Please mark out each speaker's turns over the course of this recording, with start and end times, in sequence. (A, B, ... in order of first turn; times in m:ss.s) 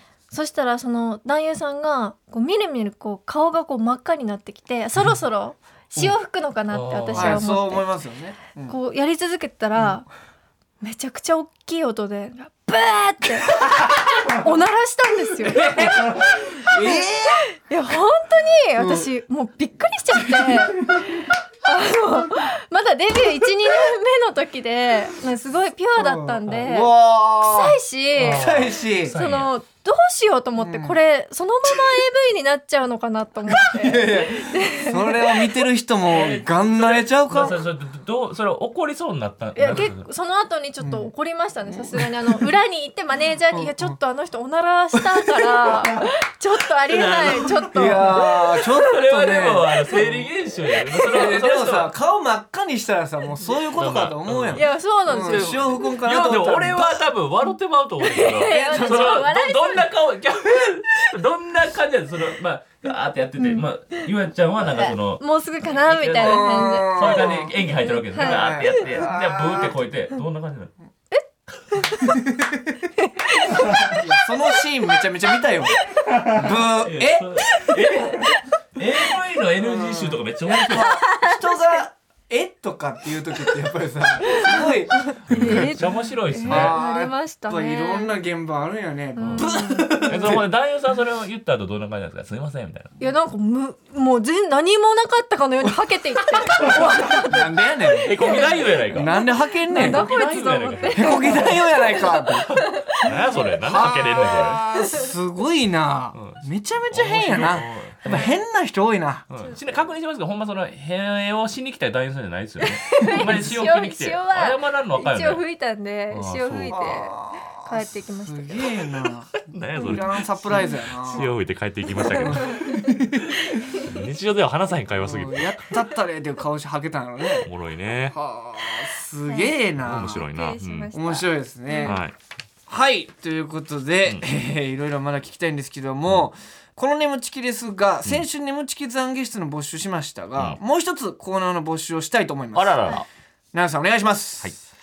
0:00.3-0:07.8 A
0:06.7-0:07.4 B
0:07.1-0:08.8 C
0:08.7-0:10.0 A
0:10.8-0:28.5 A
0:13.6-0:13.9 C
0:15.4-0:17.5 C
0:18.8-0:19.1 C
0:20.2-0:21.0 C
0:26.0-0:29.2 C
0:28.2-0:29.5 B
0:29.1-0:35.3 A
0:30.6-0:31.0 C
0:33.5-0:37.6 C
0:36.1-0:40.0 B
0:39.6-0:48.4 A
0:40.8-0:41.1 C
0:41.7-0:42.4 C
0:43.5-0:43.9 C
0:44.9-0:46.0 C
0:46.9-0:51.9 B
0:47.7-0:50.3 C
0:51.1-0:57.0 C
0:53.6-1:10.7 B
0:54.5-0:55.9 A
0:58.0-0:59.9 A
0:58.4-0:59.2 C
1:03.4-1:04.0 A
1:04.6-1:08.9 A
1:06.2-1:07.6 C
1:08.1-1:09.9 C
1:11.1-1:12.2 A
1:12.0-1:12.8 C
1:13.0-1:14.6 A
1:13.6-1:17.4 C
1:16.4-1:21.0 B
1:19.6-1:25.8 C
1:20.8-1:21.8 A
1:24.2-1:28.1 A
1:25.3-1:26.8 B
1:26.4-1:30.4 C
1:29.2-1:30.1 A
1:29.2-1:29.5 B
1:30.0-1:32.9 B
1:33.0-1:43.6 A
1:36.4-1:40.1 C
1:36.6-1:37.0 B
1:38.0-1:39.2 B
1:39.7-1:41.6 B
1:40.9-1:42.5 C
1:42.5-1:44.6 B
1:43.6-1:49.2 C
1:44.2-1:45.1 A
1:46.1-1:48.3 B
1:49.3-1:55.4 B
1:52.6-1:58.7 A
1:56.1-1:56.8 B
1:56.7-2:01.3 C
1:59.3-2:02.7 B
1:59.8-2:01.2 A
2:02.0-2:03.5 C
2:02.0-2:03.9 A
2:03.8-2:05.6 B
2:05.0-2:07.5 C
2:07.4-2:08.2 B
2:08.1-2:10.3 C
2:09.2-2:12.0 A
2:09.8-2:10.9 B
2:10.9-2:12.0 C
2:11.8-2:12.1 B
2:12.7-2:23.0 C
2:22.5-2:23.1 B
2:23.5-2:24.5 C